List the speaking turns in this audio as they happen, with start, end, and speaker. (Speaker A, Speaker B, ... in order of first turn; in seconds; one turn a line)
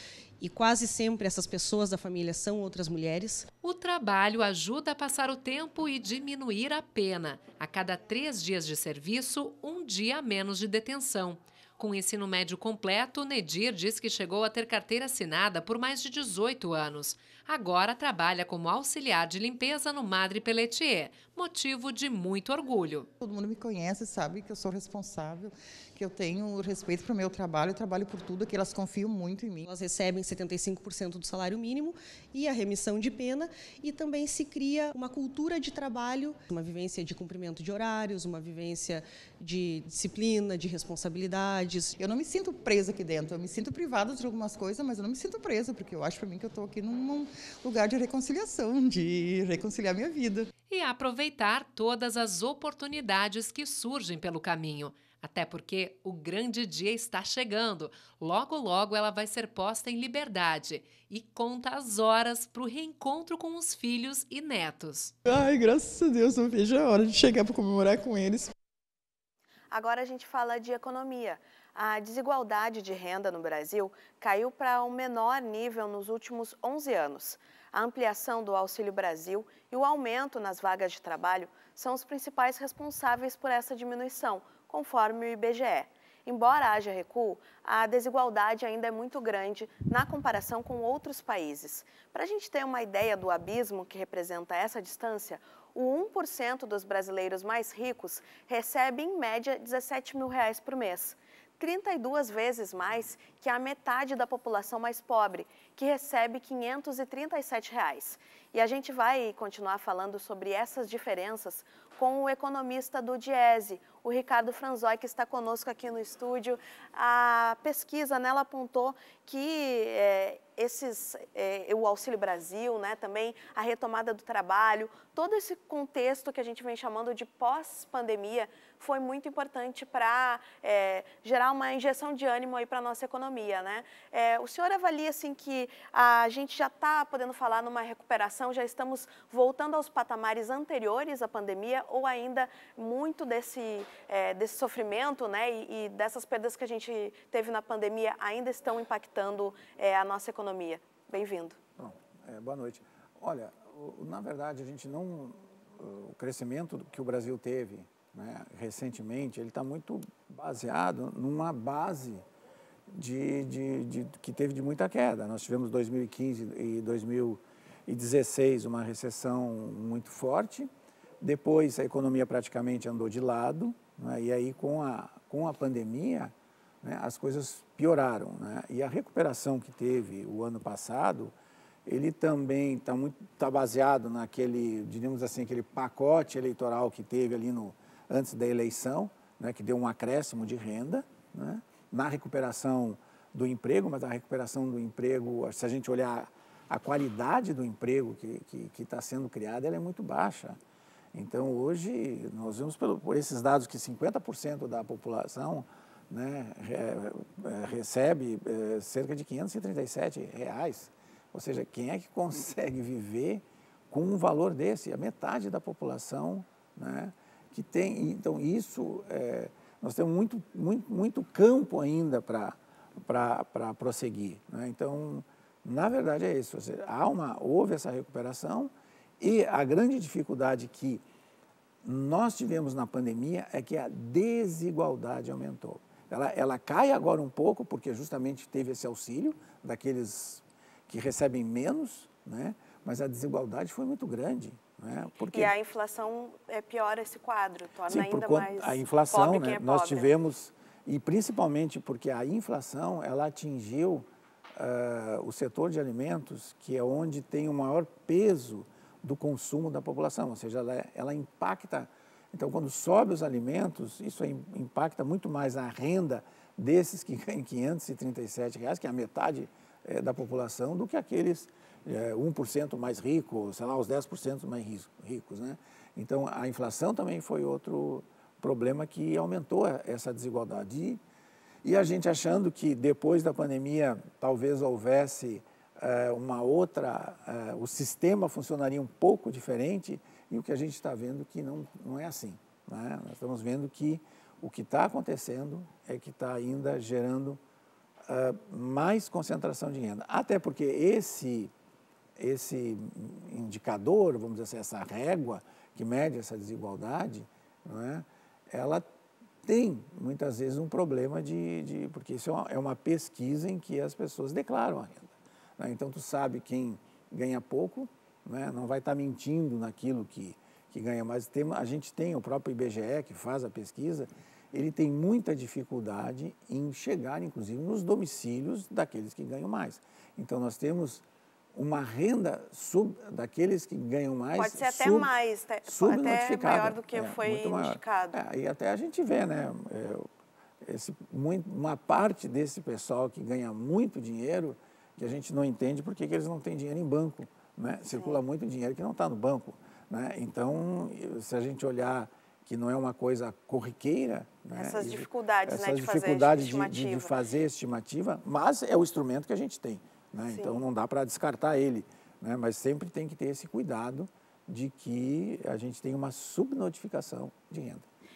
Speaker A: 0.4-3.5
Speaker B: 3.6-23.1
Speaker C: 23.2-29.6
Speaker A: 29.6-42.0
Speaker C: 42.0-50.5
Speaker B: 50.7-65.1
Speaker C: 65.2-68.5
Speaker D: 69.7-151.6
Speaker E: 151.8-162.2
Speaker E: 162.9-181.3
Speaker E: 181.9-200.6
Speaker E: 201.1-231.0
Speaker E: 231.8-245.5
Speaker D: 245.3-250.1
Speaker E: 247.9-281.0
Speaker E: 281.6-297.4
Speaker E: 298.1-301.5
Speaker E: 302.2-308.9
Speaker E: 309.4-331.0
Speaker E: 331.6-335.1
Speaker D: 334.4-338.2
Speaker E: 335.7-340.1
Speaker E: 340.6-367.9
Speaker D: 354.6-357.1
Speaker D: 360.3-360.6